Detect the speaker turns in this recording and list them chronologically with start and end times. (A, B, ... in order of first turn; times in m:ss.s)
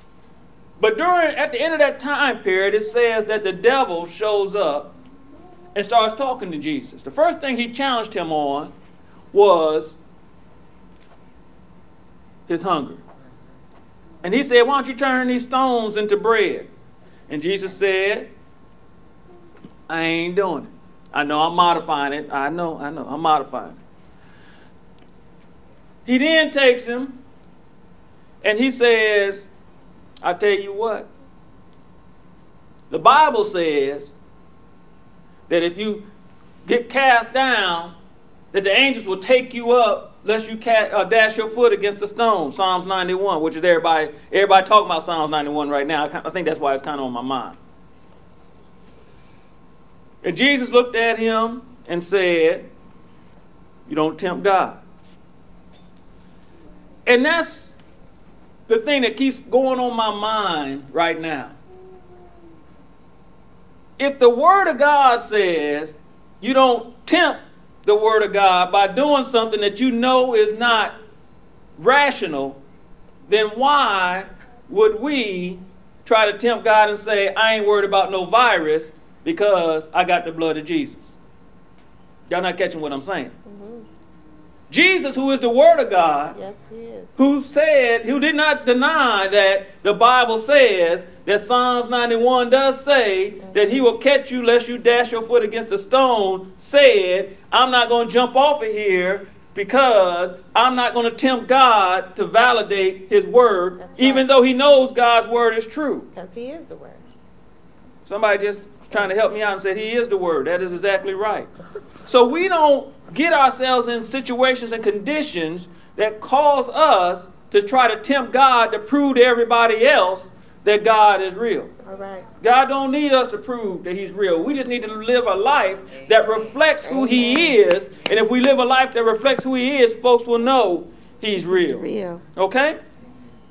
0:00.8-0:04.9 A
0:05.7-0:08.7 A
0:09.3-0:10.0 A
0:12.5-0:13.0 A
0:14.2-0:16.7 A
0:17.3-0:18.3 A
0:19.9-0:23.8 A
0:26.0-0:27.2 A
0:28.4-0:29.5 A
0:30.2-0:31.1 A
0:32.9-0:34.1 A
0:35.5-0:36.0 A
0:36.6-0:38.0 A
0:38.5-0:47.6 A
0:50.2-0:52.7 A
0:53.9-0:54.8 A
0:57.0-0:57.7 A
0:58.7-1:01.6 A
1:04.0-1:10.9 A
1:11.8-1:12.6 A
1:13.3-1:21.2 A
1:22.3-1:23.4 A
1:23.4-1:23.9 B
1:24.7-1:26.4 A
1:26.3-1:27.2 B
1:27.2-1:46.1 A
1:43.8-1:44.3 B
1:46.1-1:47.0 B
1:48.0-1:51.5 A
1:52.0-2:01.7 A
2:01.8-2:02.3 B
2:02.4-2:12.8 A
2:06.8-2:07.6 B
2:11.3-2:12.2 B